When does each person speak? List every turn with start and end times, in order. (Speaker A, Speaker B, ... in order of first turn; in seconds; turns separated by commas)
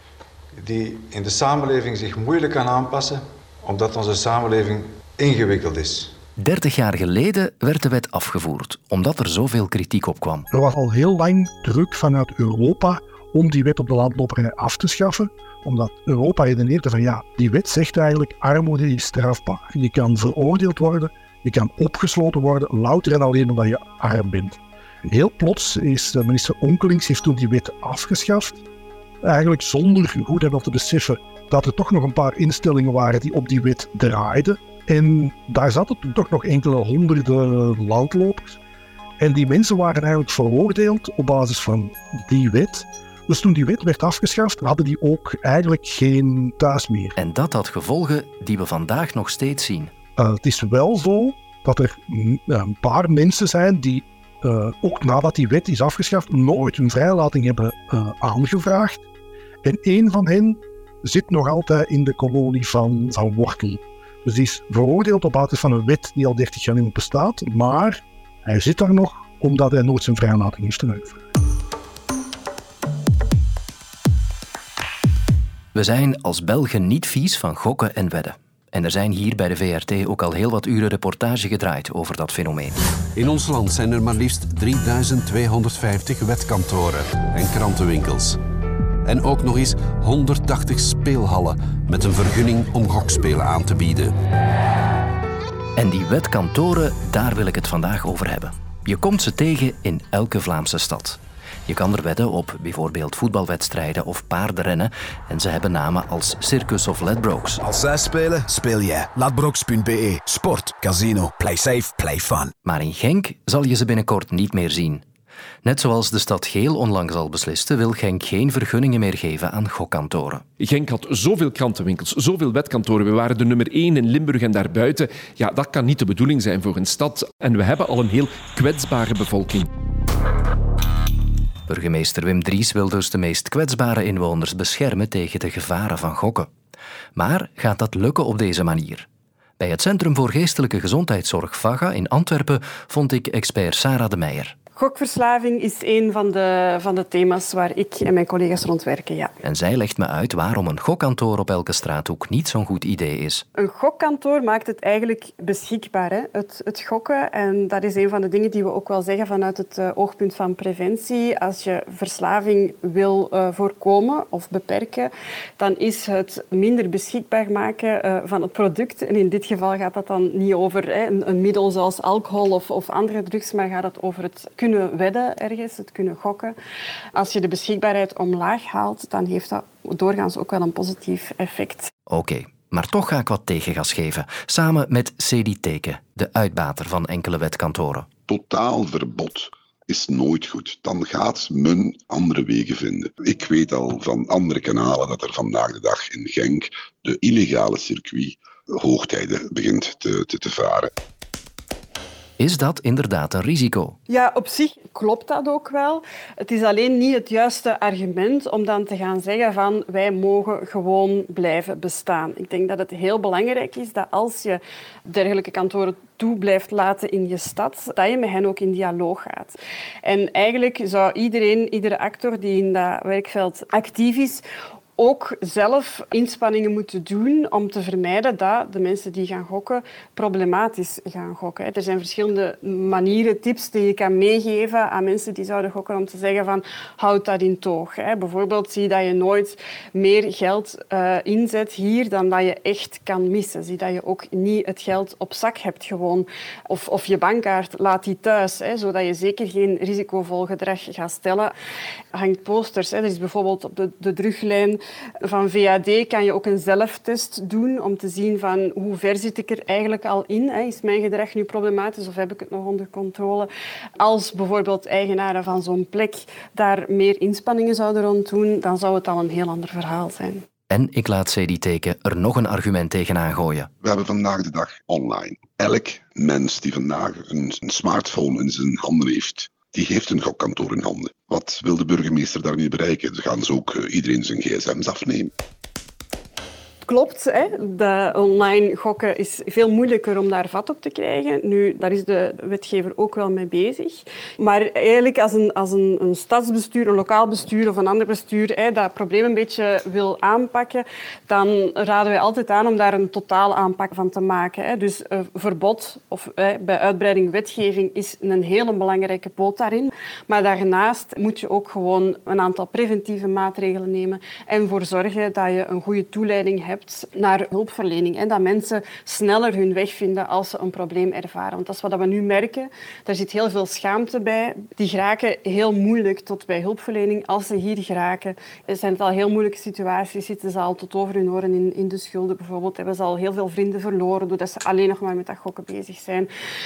Speaker A: 0.5-6.1, Speaker B: 6.4-10.5, Speaker C: 10.5-28.6, Speaker C: 29.2-38.6, Speaker C: 39.2-47.1, Speaker B: 47.2-49.9, Speaker C: 50.2-59.0, Speaker C: 59.6-71.2, Speaker B: 75.7-82.8, Speaker D: 83.1-88.4, Speaker D: 89.0-94.1, Speaker B: 95.8-107.6, Speaker E: 107.7-112.5, Speaker B: 112.6-115.0, Speaker B: 115.6-120.4, Speaker F: 120.6-129.7, Speaker B: 131.7-136.5, Speaker B: 137.1-139.1, Speaker B: 139.6-144.6, Speaker G: 144.8-149.3, Speaker B: 149.4-153.4, Speaker G: 153.6-176.6, Speaker G: 177.1-181.9, Speaker B: 182.1-188.1, Speaker H: 188.3-200.9, Speaker B: 202.4-204.0, Speaker G: 204.1-224.4, Speaker G: 225.0-251.5, Speaker G: 252.1-270.4, Speaker B: 270.7-273.7, Speaker H: 273.8-285.3, Speaker G: 286.9-336.3